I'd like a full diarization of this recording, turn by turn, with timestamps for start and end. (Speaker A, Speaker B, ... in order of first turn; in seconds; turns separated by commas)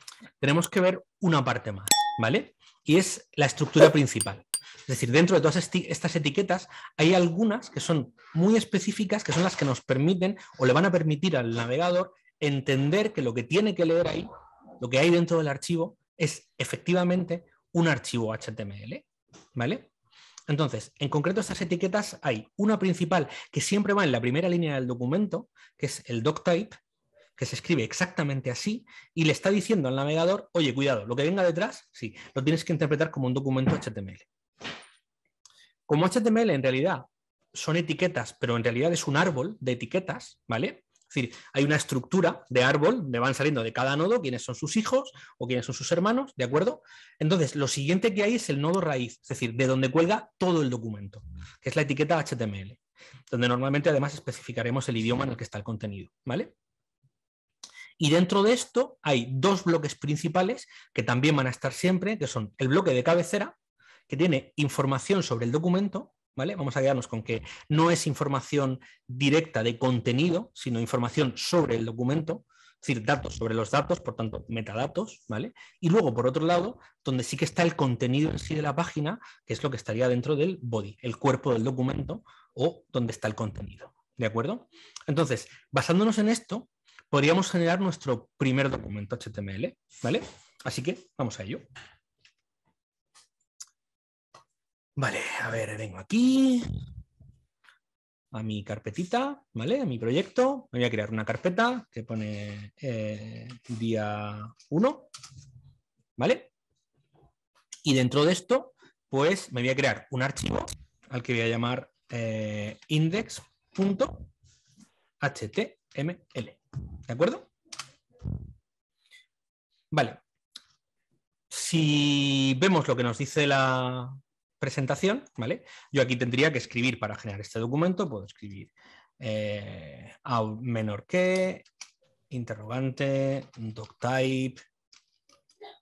Speaker A: 0.4-19.9, Speaker A: 20.5-26.8, Speaker A: 27.4-34.3, Speaker A: 35.9-56.5, Speaker A: 58.0-63.5, Speaker A: 64.1-91.6, Speaker A: 95.0-96.7, Speaker A: 98.3-105.1, Speaker A: 106.2-106.5, Speaker A: 107.8-114.3, Speaker A: 115.2-117.5, Speaker A: 119.9-120.2, Speaker A: 121.5-131.7, Speaker A: 132.3-134.6